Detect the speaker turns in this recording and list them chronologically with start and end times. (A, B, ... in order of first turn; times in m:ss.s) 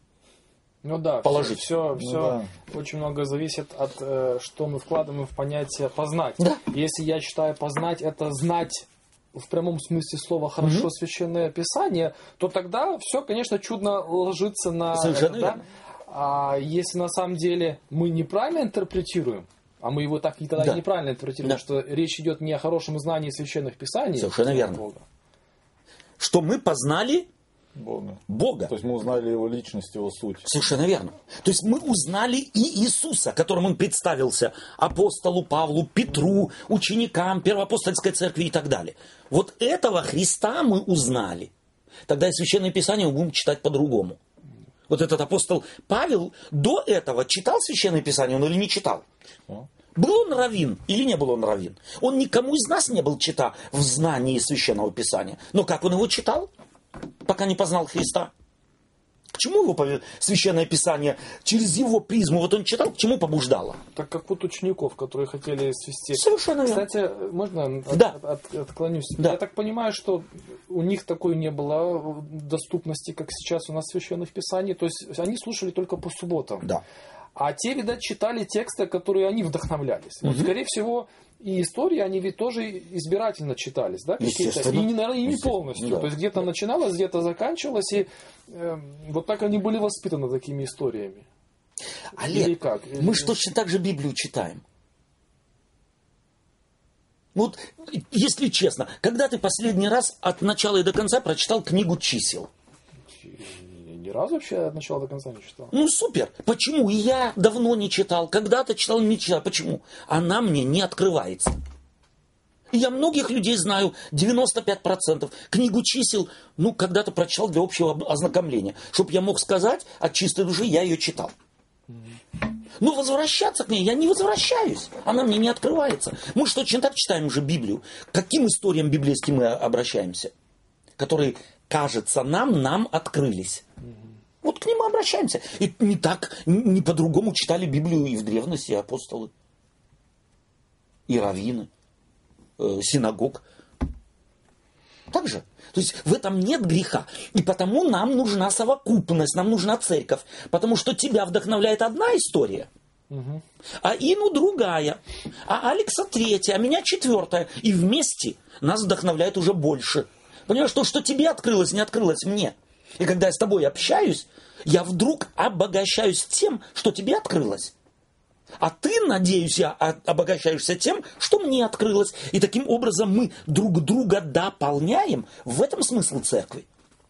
0:00.8-0:25.0 A
0:01.2-0:01.7 B
0:02.0-0:02.5 C
0:10.6-0:10.9 B
0:14.9-0:15.6 B
0:20.6-0:20.8 B
0:24.2-0:24.8 B
0:26.2-0:27.3 B
0:27.8-0:30.4 C
0:28.3-0:28.7 B
0:30.4-0:41.5 B
0:42.1-0:44.2 B
0:44.9-0:49.0 B
0:49.9-0:56.5 B
0:57.2-0:58.3 B
0:59.3-1:03.8 B
1:03.9-1:16.7 A
1:06.1-1:06.9 B
1:07.9-1:08.2 B
1:17.4-1:31.2 A
1:20.2-1:20.5 B
1:24.2-1:26.1 B
1:32.1-1:34.6 B
1:32.2-1:33.4 A
1:37.3-1:42.5 B
1:43.1-1:45.7 A
1:45.7-1:51.6 B
1:52.7-2:01.3 B
2:01.9-2:02.2 A
2:02.8-2:10.3 B
2:11.0-2:13.6 B
2:14.4-2:19.3 B
2:21.1-2:21.7 B
2:22.6-2:23.4 B
2:25.1-2:32.7 B
2:33.1-2:33.4 A
2:33.8-2:47.7 B
2:48.6-2:56.7 B